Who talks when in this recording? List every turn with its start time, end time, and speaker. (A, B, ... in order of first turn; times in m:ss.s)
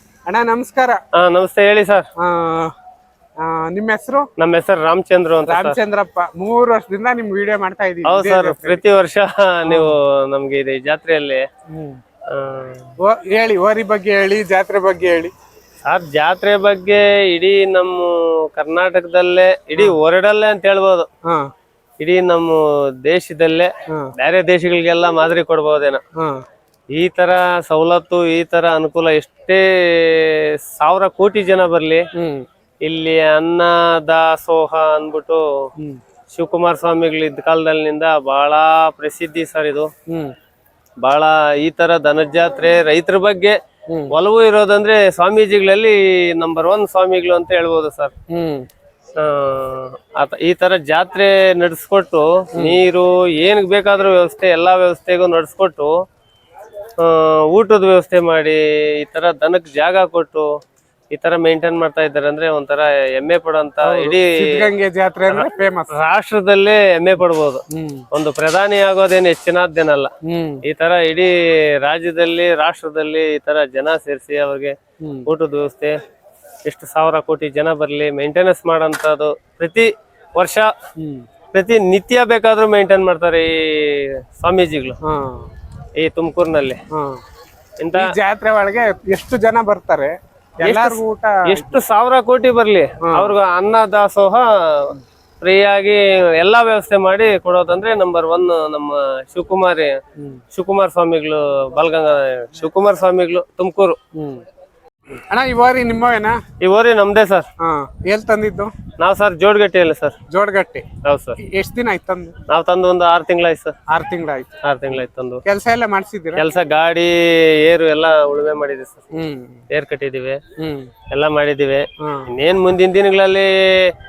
0:00.3-0:01.0 A
0:01.2-0:02.1 B
0:02.2-0:02.7 A
0:03.4-0:04.3 A
0:04.4-0:05.8 B
0:05.5-0:08.8 A
0:08.0-0:11.4 B
0:09.7-0:10.0 A
0:11.7-0:12.0 A
0:12.3-0:12.9 B
0:13.0-0:15.3 A
0:15.8-0:21.1 B
0:22.0-0:26.0 B
0:26.9-0:32.0 B
0:32.2-0:32.4 A
0:32.8-0:35.4 B
0:36.3-0:39.9 B
0:41.0-0:43.6 B
0:44.1-0:48.1 B
0:48.3-0:48.7 A
0:49.2-0:55.9 B
0:57.0-1:00.5 B
1:01.1-1:04.7 B
1:03.8-1:05.9 A
1:05.3-1:10.1 B
1:07.7-1:08.0 A
1:10.3-1:10.6 A
1:10.6-1:16.0 B
1:15.0-1:15.3 A
1:16.6-1:20.7 B
1:21.0-1:21.2 A
1:21.5-1:25.0 B
1:25.0-1:25.5 A
1:26.0-1:26.8 B
1:26.9-1:27.2 A
1:27.8-1:28.1 B
1:27.9-1:31.8 A
1:30.6-1:40.0 B
1:33.0-1:33.4 A
1:40.5-1:44.0 B
1:44.2-1:44.4 A
1:45.3-1:46.4 A
1:46.6-1:47.5 B
1:47.6-1:48.7 A
1:49.0-1:50.2 B
1:50.3-1:50.9 A
1:51.0-1:51.4 B
1:51.4-1:52.4 A
1:52.5-1:53.8 B
1:53.9-1:54.5 A
1:54.6-1:55.4 B
1:55.5-1:56.4 A
1:56.4-1:59.1 B
1:59.2-1:59.6 A
1:59.7-2:00.4 B
2:00.6-2:00.9 A
2:01.1-2:03.9 B
2:02.0-2:02.3 A